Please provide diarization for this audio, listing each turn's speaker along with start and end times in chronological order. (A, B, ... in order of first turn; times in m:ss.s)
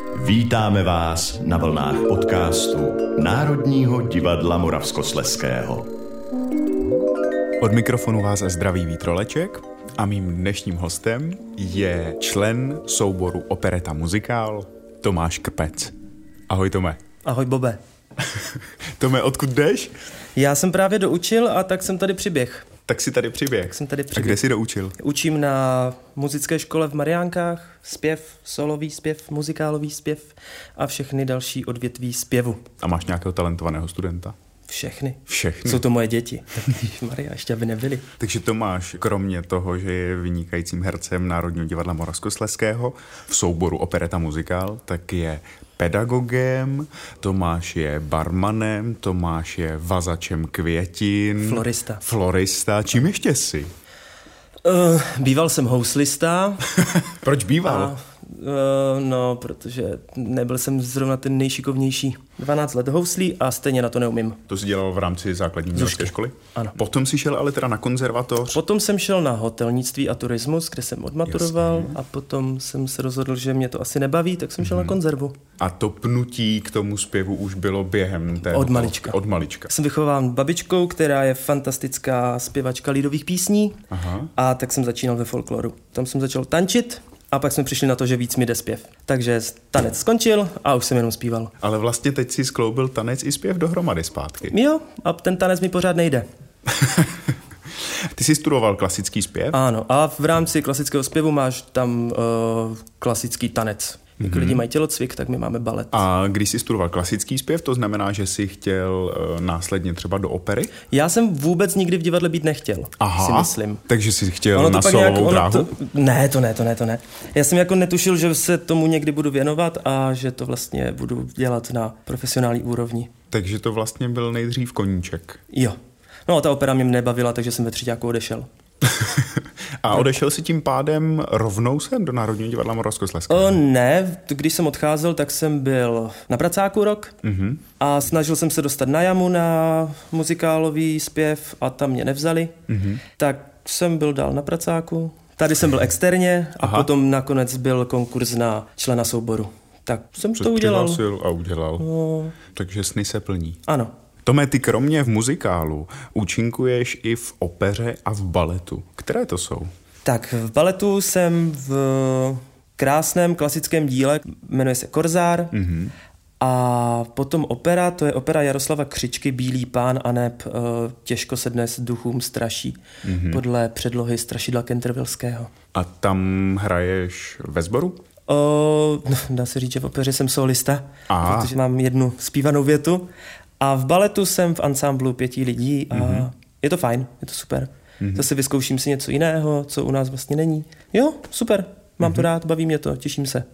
0:00.1-0:05.9 A
0:07.6-0:15.9 B
0:16.5-0:17.0 B
0:17.2-0:17.8 C
0:18.2-0:19.9 B
0:20.4-0:22.7 C
0:22.9-0:25.0 B
0:23.7-0:24.4 C
0:25.0-0:32.6 C
0:32.8-0:34.3 B
0:34.7-0:38.0 C
0:35.3-0:35.8 B
0:38.2-0:53.7 B
0:51.4-0:52.0 C
0:54.6-0:56.7 C
0:57.0-0:57.9 B
0:57.6-1:04.4 C
1:04.5-1:08.6 B
1:05.7-1:06.8 C
1:08.5-1:15.4 C
1:11.3-1:12.0 B
1:14.6-1:15.0 B
1:15.6-1:19.7 B
1:18.4-1:23.8 C
1:23.9-1:24.3 B
1:24.4-1:31.5 C
1:31.6-1:34.6 B
1:34.5-1:36.2 C
1:36.7-1:37.2 B
1:38.1-1:39.6 B
1:39.5-1:46.1 C
1:44.2-1:44.6 B
1:45.9-1:50.7 B
1:50.9-1:53.8 C
1:53.0-1:55.8 B
1:54.5-2:03.1 C
2:03.3-2:05.4 B
2:05.5-2:05.8 C
2:06.3-2:08.5 C
2:08.8-2:13.6 B
2:13.3-2:17.2 C
2:17.2-2:17.6 B
2:17.8-2:22.6 C
2:22.7-2:23.0 B
2:23.2-2:31.0 C
2:26.6-2:26.9 B
2:30.4-2:33.6 B
2:31.8-2:32.4 C
2:33.7-2:33.9 C
2:34.2-2:39.7 B
2:40.0-2:45.6 C
2:45.5-2:45.9 B
2:46.4-2:55.5 C
2:53.0-2:53.4 B
2:55.7-2:58.0 B
2:58.3-3:03.1 C
3:01.1-3:01.5 B
3:03.6-3:13.4 C
3:05.9-3:06.3 B
3:08.0-3:08.3 B